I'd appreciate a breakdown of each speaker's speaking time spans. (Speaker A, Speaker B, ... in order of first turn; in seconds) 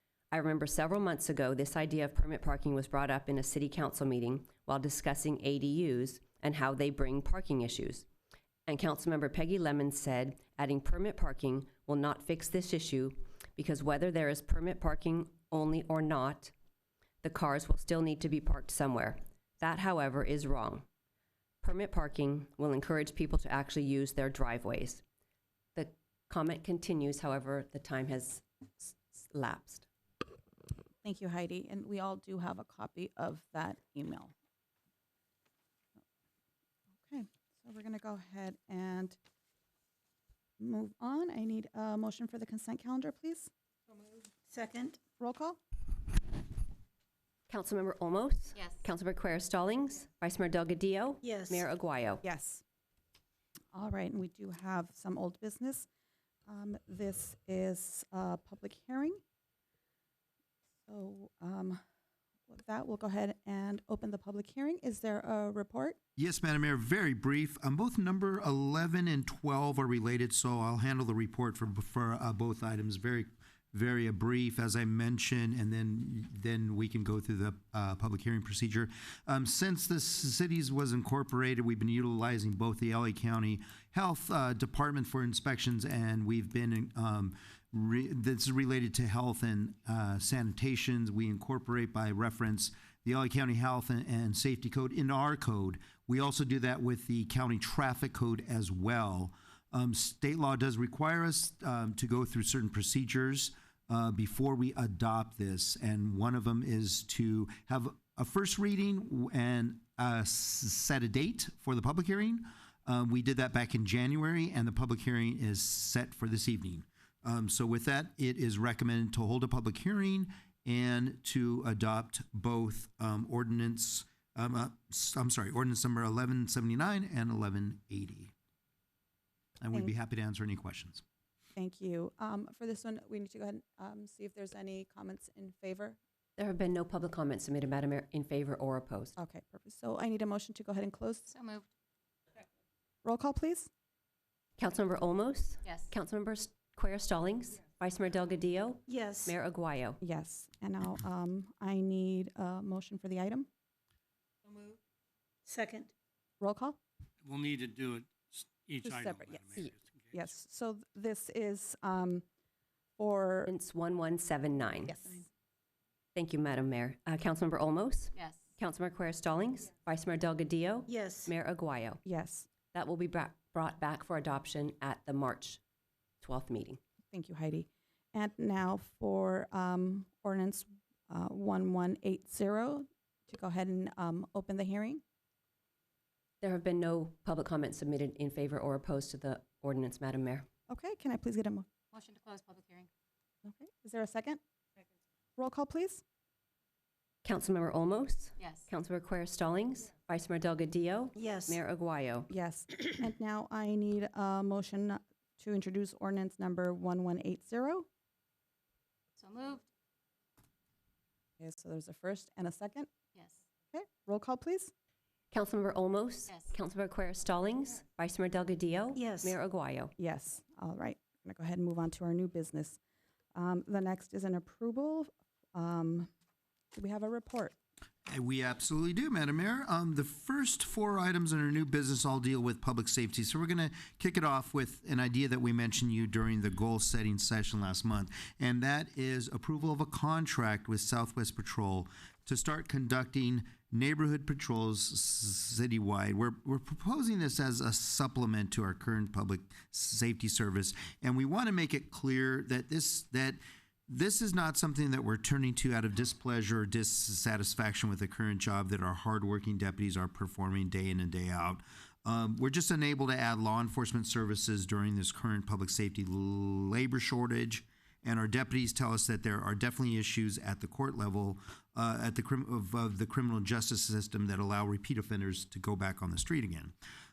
Speaker A: 0.3-8.1, 8.7-16.5, 17.2-20.8, 21.6-25.0, 25.7-29.9, 47.5-52.2, 136.4-139.2, 144.6-150.0, 163.5-164.9, 166.1-172.0, 172.7-175.6, 176.2-176.8, 186.4-190.5, 197.2-202.3, 215.3-219.9
Speaker B: 31.0-34.3, 37.0-39.2, 40.6-43.5, 45.2-45.6, 52.2-52.6, 53.7-55.9, 56.5-59.2, 60.9-61.8, 62.5-66.0, 131.6-136.0, 139.2-141.3, 143.0-143.7, 150.0-153.5, 156.4-156.8, 158.8-162.2, 163.0-163.5, 164.9-165.2, 172.0-172.5, 177.1-185.0, 190.7-191.7, 193.4-194.4, 195.4-196.0, 202.3-207.9, 211.4-212.9, 213.7-214.7, 220.0-222.8, 223.3-226.1, 226.7-227.6
Speaker C: 44.5-45.0, 51.2-51.7, 148.9-149.3, 155.4-155.9, 170.9-171.3, 201.1-201.6, 218.9-219.4
Speaker D: 66.2-128.3, 129.6-131.0, 228.1-276.7
Speaker E: 141.3-141.6, 191.9-192.9, 209.2-209.7, 213.1-213.4
Speaker F: 157.2-160.3